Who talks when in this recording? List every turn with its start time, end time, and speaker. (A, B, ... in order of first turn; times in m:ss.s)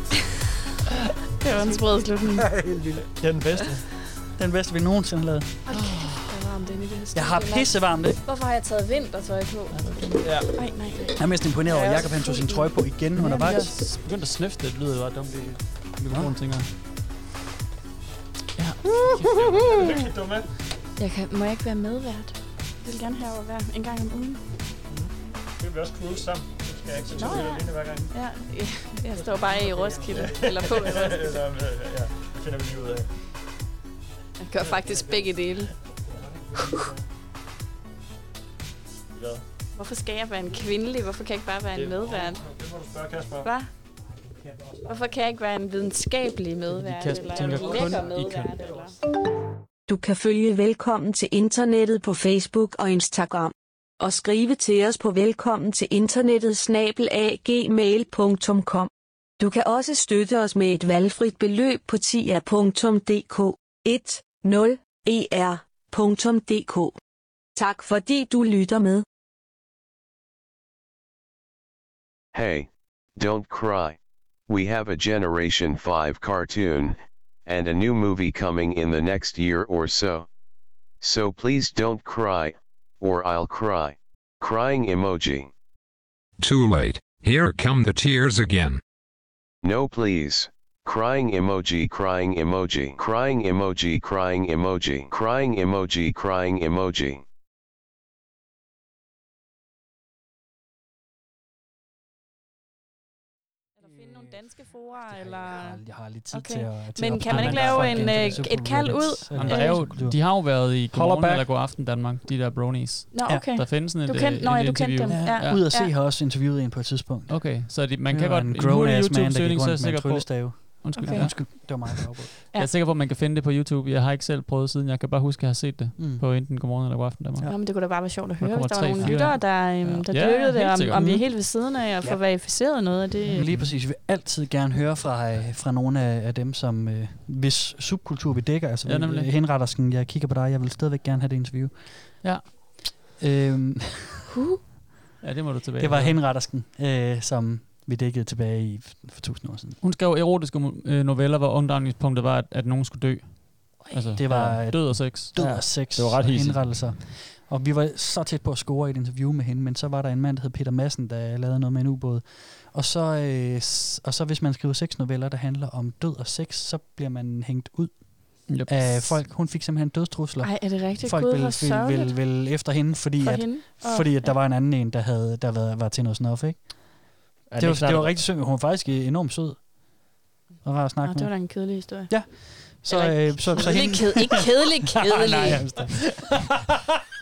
0:01.4-0:02.5 A
0:02.5-0:03.0 B
0:03.2-0:03.8 C
0:04.4-0:05.6 B
0:05.6-0:09.8 A
0:07.1-0:08.2 B
0:09.7-0:10.4 D
0:10.4-0:12.8 A
0:11.2-0:13.8 B
0:13.2-0:16.7 D
0:16.0-0:16.3 B
0:18.6-0:19.4 D
0:19.4-0:20.4 C
0:21.0-0:24.4 A
0:24.9-0:28.1 C
0:27.2-0:31.4 A
0:29.8-0:33.1 C
0:34.4-0:35.7 A
0:36.2-0:36.9 C
0:39.1-0:39.4 C
0:39.8-0:42.4 A
0:41.7-0:43.5 C
0:44.8-0:48.9 A
0:46.7-0:48.5 D
0:47.8-0:48.9 C
0:49.9-1:07.0 E
1:07.6-1:09.0 E
1:12.3-1:14.0 F
1:14.5-1:16.9 F
1:17.4-1:20.3 F
1:21.0-1:25.5 F
1:26.4-1:28.8 G
1:29.6-1:37.2 F
1:43.8-1:49.8 A
1:45.1-1:51.5 B
1:47.3-1:48.6 D
1:49.3-1:55.6 D
1:53.1-1:55.9 A
1:55.0-2:02.3 B
1:57.3-2:11.2 D
2:01.0-2:01.4 A
2:06.0-2:06.2 B
2:07.4-2:13.5 A
2:09.0-2:09.4 B
2:13.3-2:13.7 D
2:13.3-2:22.5 B
2:18.8-2:19.3 D
2:23.2-2:24.2 B
2:24.3-2:24.6 A
2:25.2-2:26.2 D
2:25.8-2:29.8 B
2:29.8-2:35.3 D
2:34.2-3:00.0 B
2:35.3-2:36.8 C
2:48.5-2:49.2 D
2:50.4-2:52.2 A
2:53.2-2:54.3 A
2:57.5-2:58.2 C
3:00.6-3:06.3 B
3:01.0-3:05.8 A